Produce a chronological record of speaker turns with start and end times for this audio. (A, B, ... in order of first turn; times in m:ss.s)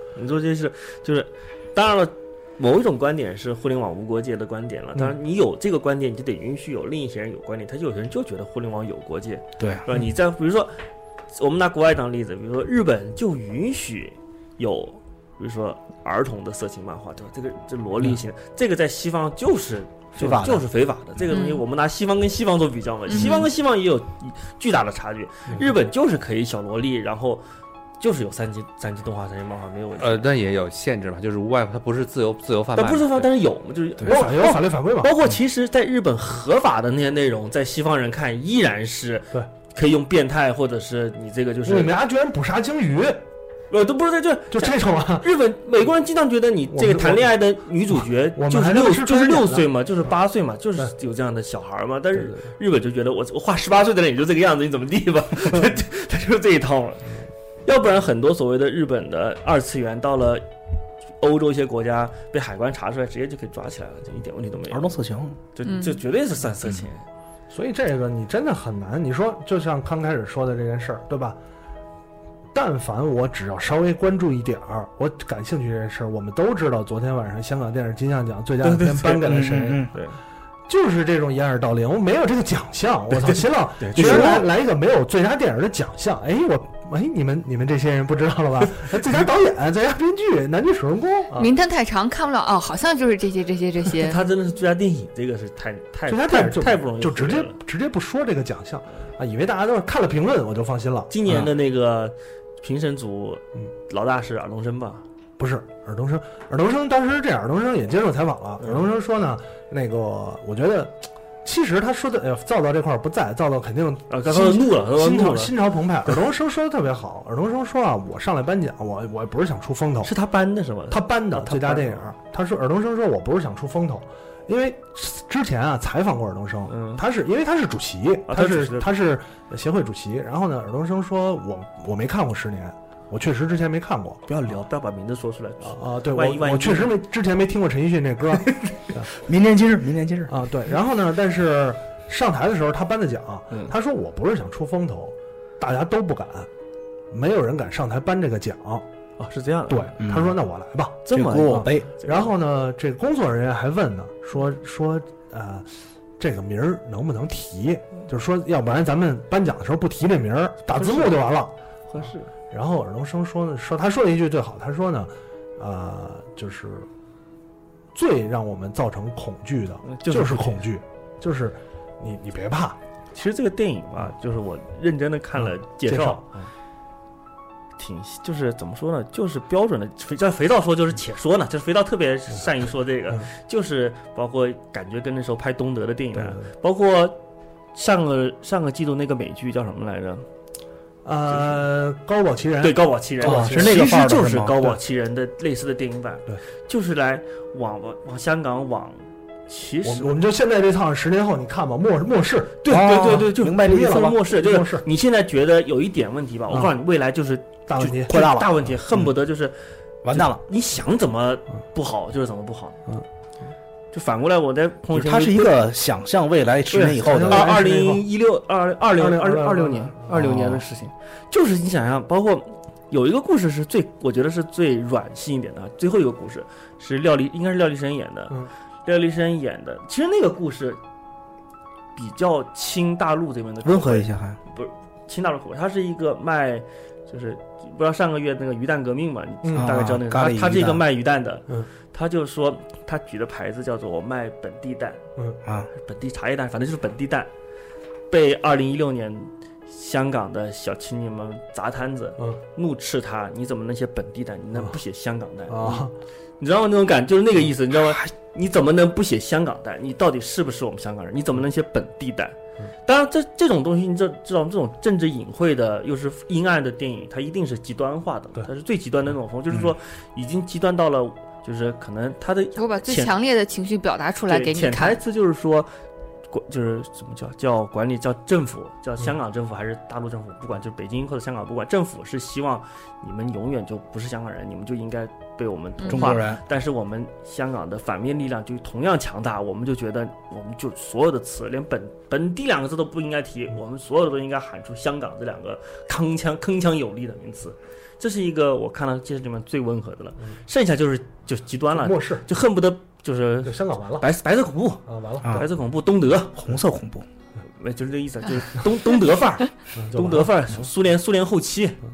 0:00.2-0:10.7 A
0:09.6-0:09.8 B
0:11.3-0:27.4 A
0:20.2-0:20.7 B
0:21.3-0:21.6 C
0:23.1-0:23.4 C
0:28.0-0:30.3 A
0:30.0-0:33.3 D
0:32.8-0:42.0 A
0:34.0-0:35.3 E
0:41.6-0:43.2 E
0:43.7-0:57.1 A
0:44.5-0:45.3 E
0:46.7-0:47.3 E
0:48.4-0:49.7 E
0:57.7-1:00.4 A
1:01.2-1:04.9 A
1:04.7-1:05.4 B
1:05.6-1:07.0 A
1:05.6-1:06.0 C
1:07.5-1:11.4 E
1:12.5-1:19.9 E
1:18.6-1:19.3 A
1:19.2-1:19.9 B
1:20.7-1:31.5 E
1:23.2-1:24.5 A
1:24.0-1:24.2 B
1:31.3-1:34.2 C
1:33.9-1:37.6 A
1:36.1-1:41.4 E
1:41.1-1:45.0 A
1:45.4-2:00.1 E
1:54.1-1:55.6 A
2:00.0-2:02.1 A
2:00.9-2:14.6 E
2:06.7-2:07.0 A
2:08.3-2:09.0 A
2:14.4-2:17.0 A
2:15.6-2:19.1 E
2:19.2-2:20.4 B
2:20.3-2:26.5 E
2:27.1-2:28.8 E
2:29.2-2:29.9 A
2:29.7-2:41.5 E
2:30.0-2:30.4 B
2:31.1-2:32.3 A
2:31.1-2:31.9 B
2:40.7-2:41.3 A
2:41.9-2:42.3 A
2:42.5-2:46.9 E
2:47.9-2:52.8 E
2:49.9-2:50.6 A
2:53.1-2:56.2 A
2:55.4-2:56.5 E
2:57.8-3:07.2 A
3:06.1-3:06.4 E
3:07.8-3:10.2 A
3:11.0-3:13.8 E
3:11.3-3:11.6 A
3:12.6-3:20.1 A
3:13.2-3:14.8 B
3:19.8-3:22.8 E
3:22.6-3:29.6 A
3:22.7-3:24.2 B
3:23.5-3:24.8 E
3:27.7-3:28.5 E
3:28.1-3:28.5 B
3:30.0-3:30.4 B
3:30.1-3:32.8 A
3:33.9-3:35.6 A
3:34.9-3:37.6 B
3:36.7-3:50.8 A
3:37.0-3:38.0 E
3:39.0-3:40.5 E
3:52.0-4:05.0 A
3:53.6-3:54.4 B
3:59.4-3:59.7 E
3:59.5-4:00.8 B
4:05.4-4:05.7 B
4:05.8-4:07.3 A
4:08.1-4:15.9 A
4:15.5-4:15.9 E
4:16.4-4:33.1 A
4:32.6-4:35.0 C
4:34.3-4:35.7 A
4:36.3-5:06.4 A
4:45.9-4:46.4 B
5:01.7-5:02.2 E
5:03.4-5:04.1 E
5:04.9-5:05.4 E
5:05.2-5:05.5 B
5:06.4-5:07.1 B
5:07.6-5:11.8 A
5:09.8-5:10.3 E